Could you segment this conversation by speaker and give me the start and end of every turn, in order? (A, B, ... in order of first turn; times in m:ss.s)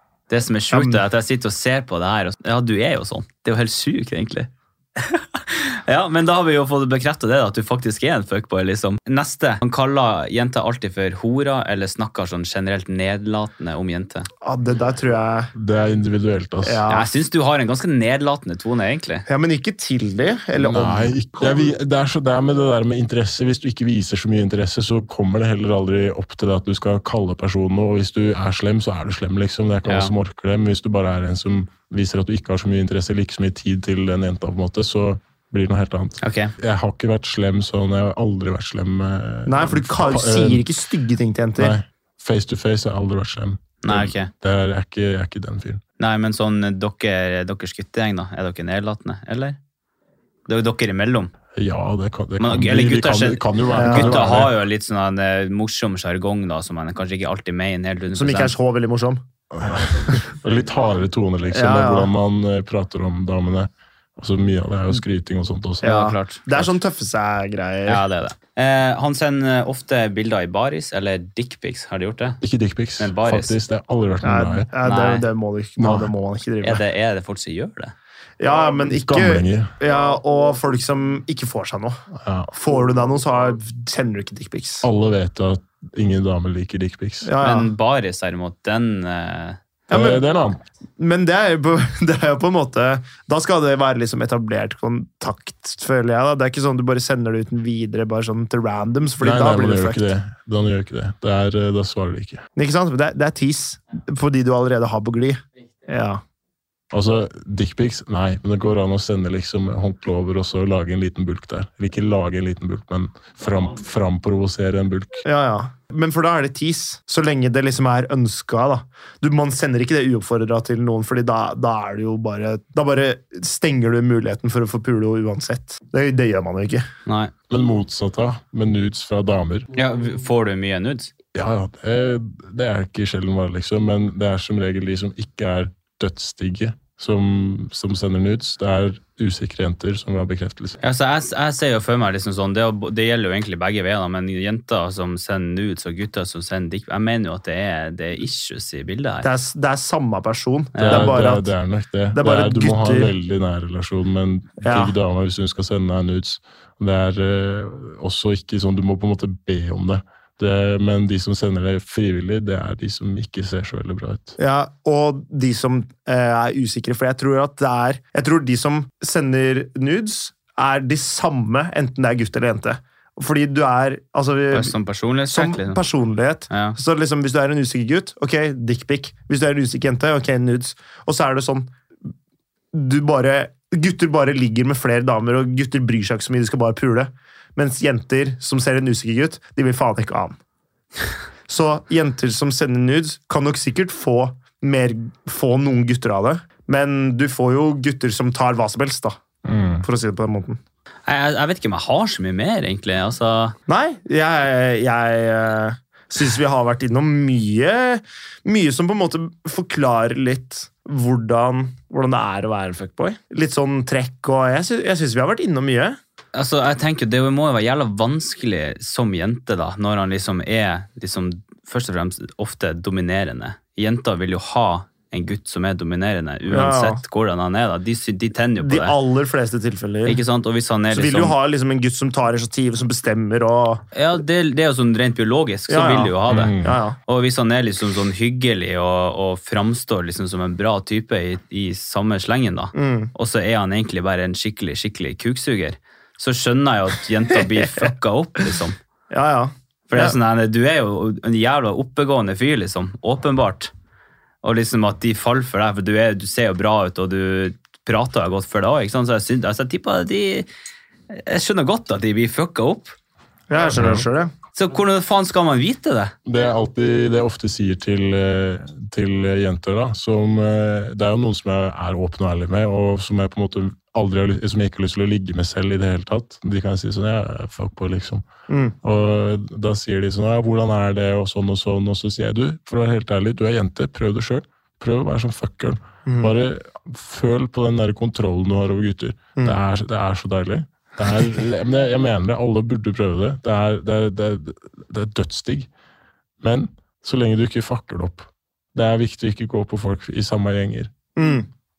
0:00.3-0:14.3 A
0:00.7-0:01.0 B
0:14.4-0:15.5 B
0:15.5-0:16.8 C
0:16.6-0:17.1 B
0:16.9-0:19.2 A
0:19.3-0:21.2 B
0:20.5-0:40.7 C
0:29.9-0:30.1 A
0:36.2-0:36.5 A
0:39.5-0:41.7 B
0:41.6-0:45.8 C
0:43.8-0:44.3 A
0:46.0-0:49.6 A
0:50.5-0:51.3 A
0:51.5-0:54.5 C
0:52.4-0:58.5 A
0:53.7-0:54.3 B
0:58.1-0:59.2 B
0:59.5-1:06.7 C
1:01.5-1:02.1 B
1:05.8-1:08.0 B
1:05.8-1:06.4 A
1:07.9-1:12.4 A
1:12.4-1:14.7 C
1:13.0-1:13.6 A
1:14.2-1:16.8 B
1:14.8-1:15.2 A
1:15.8-1:16.1 C
1:16.6-1:17.9 A
1:18.4-1:24.8 B
1:18.9-1:19.7 C
1:22.1-1:22.5 C
1:24.8-1:27.3 C
1:27.2-1:27.7 B
1:27.4-1:29.6 A
1:29.9-1:30.6 C
1:29.9-1:30.2 B
1:31.0-1:40.1 B
1:39.2-1:42.4 C
1:42.6-1:46.2 B
1:46.9-1:55.2 C
1:55.2-2:06.8 B
2:07.0-2:07.3 A
2:07.5-2:09.7 C
2:09.7-2:11.1 A
2:11.3-2:20.8 C
2:20.8-2:29.3 A
2:29.2-2:31.5 B
2:30.7-2:31.2 A
2:30.8-2:44.4 C
2:32.1-2:33.1 B
2:34.6-2:34.9 B
2:44.4-2:54.7 B
2:54.5-2:55.8 A
2:55.3-3:01.7 B
2:56.5-2:56.8 A
3:02.7-3:10.4 B
3:11.5-3:19.2 B
3:19.4-3:19.8 C
3:19.8-3:20.6 B
3:21.0-3:23.6 A
3:23.7-3:36.0 B
3:36.3-3:48.9 A
3:46.5-3:47.0 B
3:48.6-3:50.2 B
3:50.0-3:51.4 A
3:50.9-3:53.8 B
3:53.9-3:56.5 A
3:55.7-3:57.0 B
3:56.3-3:56.8 C
3:57.0-4:08.8 A
4:02.7-4:03.1 B
4:09.1-4:10.2 B
4:09.9-4:13.7 A
4:14.4-4:20.4 A
4:21.1-4:22.9 A
4:23.5-4:24.3 B
4:23.7-4:24.0 C
4:24.5-4:26.1 A
4:26.2-4:38.2 C
4:38.5-4:38.7 B
4:38.8-4:55.7 C
4:46.0-4:46.3 B
4:56.4-5:00.9 C
5:01.2-5:01.5 B